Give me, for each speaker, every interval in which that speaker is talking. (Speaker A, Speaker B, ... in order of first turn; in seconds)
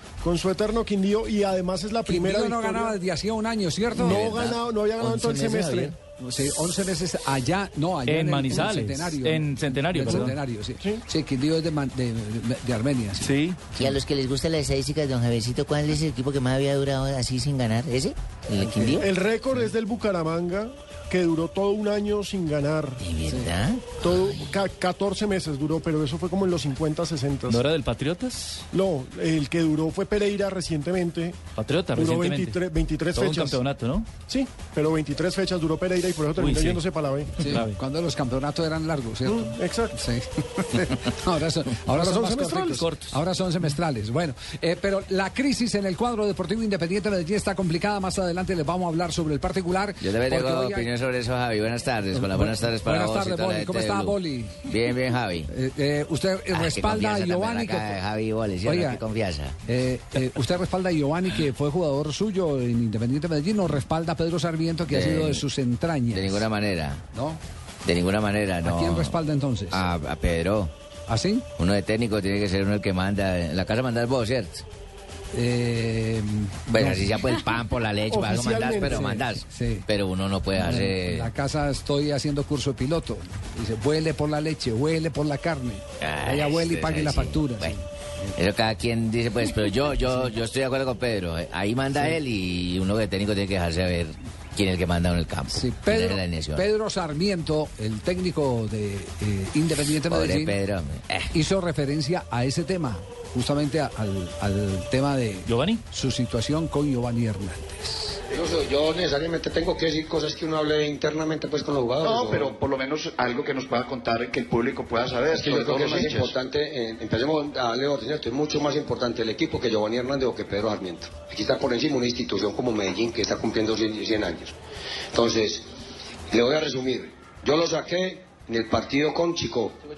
Speaker A: 0.2-3.0, 4.0-5.9, 19.0-23.0, 24.0-27.6, 28.7-31.4, 31.9-33.6, 34.3-37.3, 39.3-40.0, 41.9-42.8, 78.1-79.2
Speaker B: 2.1-4.4, 6.2-13.3, 18.6-19.0, 37.4-50.9, 52.1-54.7, 55.5-58.0, 58.6-59.0, 59.7-66.5, 67.1-67.4, 68.6-69.8, 71.1-71.5, 75.3-77.2, 78.9-79.9, 80.6-87.8, 95.5-100.6, 101.3-108.2
Speaker C: 3.9-5.9, 18.1-19.0, 23.2-24.2, 50.0-54.2, 54.7-55.5, 56.5-59.6, 64.9-65.4, 66.1-67.0, 67.8-69.1, 69.7-70.7, 71.6-74.6, 76.7-81.3, 86.0-87.8, 88.4-96.7, 100.1-101.3
Speaker D: 8.1-10.3, 13.2-13.6, 27.5-28.6, 31.6-32.6, 33.1-34.1, 36.4-36.8, 37.5-37.8, 42.6-43.2, 105.5-105.8
Speaker E: 13.8-18.1, 23.1-23.8
Speaker F: 108.3-112.6, 115.3-124.5, 125.1-125.7, 126.3-129.8
Speaker G: 112.0-116.4